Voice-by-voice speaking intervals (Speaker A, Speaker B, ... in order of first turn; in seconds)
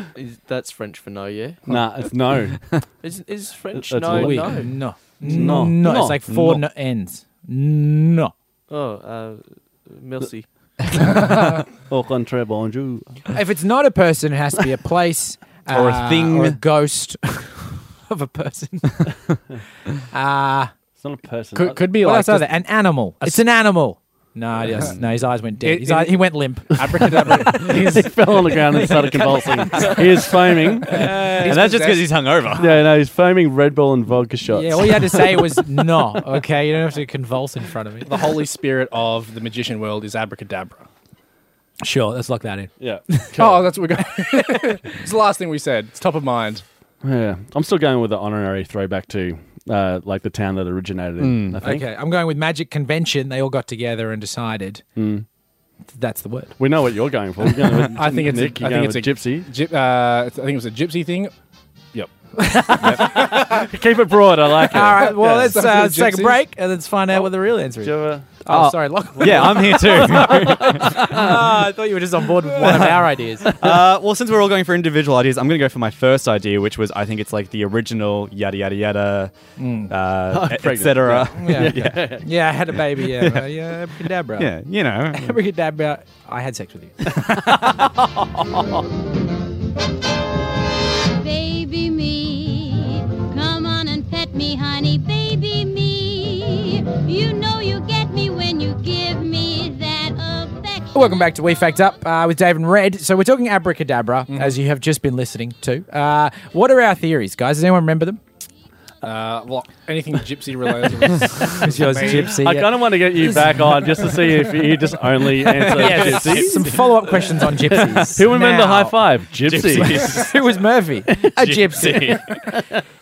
Speaker A: 0.1-1.6, 3.0-4.8, 8.7-10.5
Speaker B: 1.7-2.8, 3.7-4.7, 5.2-6.6, 11.0-13.2, 21.0-21.9, 27.4-31.2, 32.5-35.6, 42.8-43.7, 47.0-51.8, 55.0-55.2, 56.6-59.5, 62.9-65.5, 67.8-68.3, 70.2-71.5, 72.6-73.8, 80.3-82.8, 87.2-88.8, 112.0-120.2, 122.3-122.8
Speaker C: 4.1-8.3, 13.3-19.1, 20.1-20.7, 22.0-31.6, 34.5-38.1, 41.8-43.3, 44.3-44.7, 51.6-54.8, 55.9-56.5, 62.4-63.6, 64.7-73.5, 79.6-79.9, 81.3-84.5, 85.1-87.1, 100.9-108.2, 111.5-113.5, 115.6-119.0, 119.7-122.2
Speaker D: 15.7-16.6, 31.4-32.7, 51.2-51.6, 68.5-71.2, 73.5-79.3, 79.9-82.0, 84.4-85.4, 115.7-116.7, 119.4-120.3, 121.4-122.2
Speaker E: 21.5-22.5, 25.6-28.1, 30.9-32.1, 38.0-40.9, 43.4-46.6, 57.9-61.3, 61.9-63.6, 65.0-66.4, 104.3-104.6, 109.0-112.3
Speaker F: 91.1-101.4